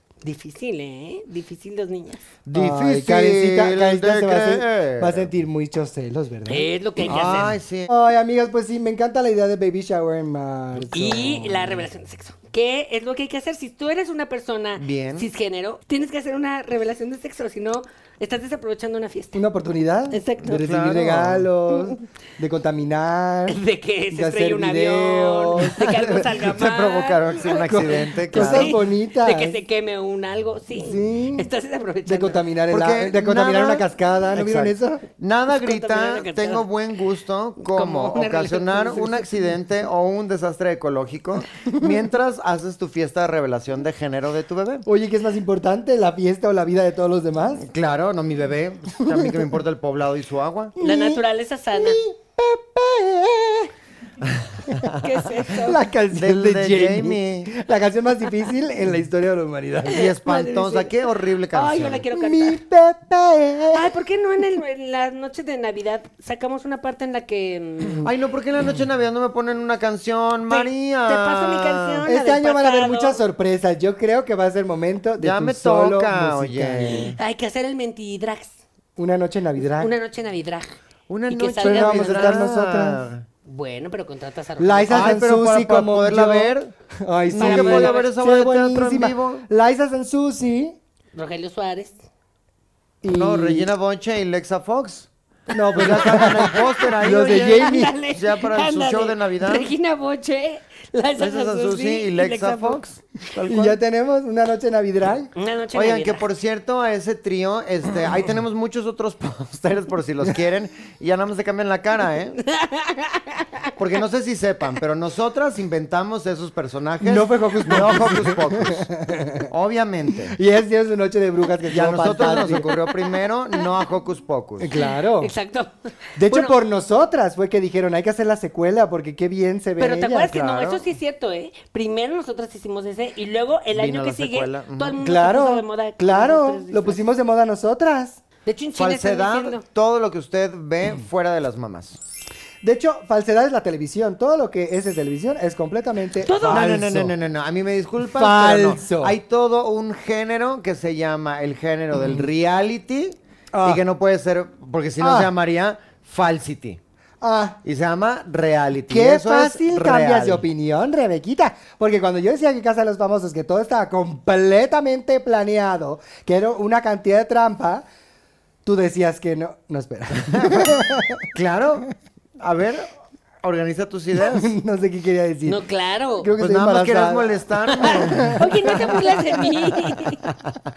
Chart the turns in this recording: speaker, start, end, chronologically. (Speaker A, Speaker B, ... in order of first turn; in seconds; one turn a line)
Speaker A: 0.2-2.2
Speaker B: 2.4-5.3
Speaker C: 2.5-6.7
Speaker A: 6.5-7.6
Speaker B: 7.0-7.9
Speaker C: 7.9-11.7
Speaker A: 10.8-19.4
Speaker B: 14.8-15.3
Speaker C: 19.3-23.6
Speaker A: 20.1-20.7
Speaker B: 20.5-21.5
Speaker A: 21.7-22.0
Speaker A: 23.5-32.4
Speaker C: 24.1-26.1
Speaker B: 25.8-28.7
Speaker C: 27.5-29.6
Speaker C: 30.8-31.5
Speaker C: 32.0-35.0
Speaker B: 32.7-44.9
Speaker A: 35.5-36.7
Speaker A: 37.6-39.3
Speaker C: 44.8-47.7
Speaker B: 47.6-50.7
Speaker C: 49.0-49.5
Speaker C: 50.8-53.7
Speaker A: 50.8-52.0
Speaker B: 54.2-55.1
Speaker A: 55.0-55.8
Speaker C: 55.5-60.1
Speaker B: 56.1-57.5
Speaker B: 59.8-62.0
Speaker A: 60.0-61.0
Speaker A: 61.5-62.6
Speaker C: 62.1-64.0
Speaker A: 63.7-68.1
Speaker B: 68.0-72.0
Speaker A: 70.5-73.2
Speaker C: 72.1-77.1
Speaker B: 75.2-77.2
Speaker A: 77.2-78.5
Speaker C: 79.0-79.9
Speaker A: 79.7-80.8
Speaker B: 81.1-83.2
Speaker A: 81.3-82.4
Speaker C: 81.6-83.0
Speaker A: 83.4-85.2
Speaker C: 84.6-90.8
Speaker B: 84.9-86.7
Speaker B: 87.3-89.5
Speaker A: 87.3-88.1
Speaker A: 91.1-92.0
Speaker C: 93.0-93.7
Speaker B: 93.1-95.1
Speaker C: 95.5-97.9
Speaker A: 95.5-102.8
Speaker B: 95.7-99.7
Speaker B: 101.2-103.8
Speaker C: 103.5-105.3
Speaker A: 105.3-106.2
Speaker B: 105.7-112.4
Speaker A: 112.4-113.6
Speaker B: 113.8-118.9
Speaker C: 117.0-119.5
Speaker B: 119.5-120.4
Speaker C: 120.3-122.7
Speaker B: 121.7-124.7
Speaker A: 122.3-122.9
Speaker C: 124.6-125.3
Speaker A: 124.7-126.5
Speaker C: 126.2-130.3
Speaker A: 129.8-137.0
Speaker B: 130.3-130.8
Speaker B: 133.7-135.0
Speaker C: 135.0-138.2
Speaker A: 138.4-139.6
Speaker B: 138.8-142.0
Speaker C: 142.6-147.1
Speaker A: 146.2-146.7
Speaker B: 146.5-156.8
Speaker C: 148.1-149.2
Speaker C: 153.5-153.8
Speaker C: 155.0-155.3
Speaker C: 157.2-157.6
Speaker B: 157.6-160.4
Speaker C: 158.9-167.8
Speaker C: 168.6-171.3
Speaker B: 170.3-170.8
Speaker B: 171.3-172.9
Speaker B: 173.4-174.5
Speaker C: 174.2-175.6
Speaker A: 175.4-176.3
Speaker C: 176.2-178.8
Speaker B: 176.4-180.5
Speaker A: 177.8-180.2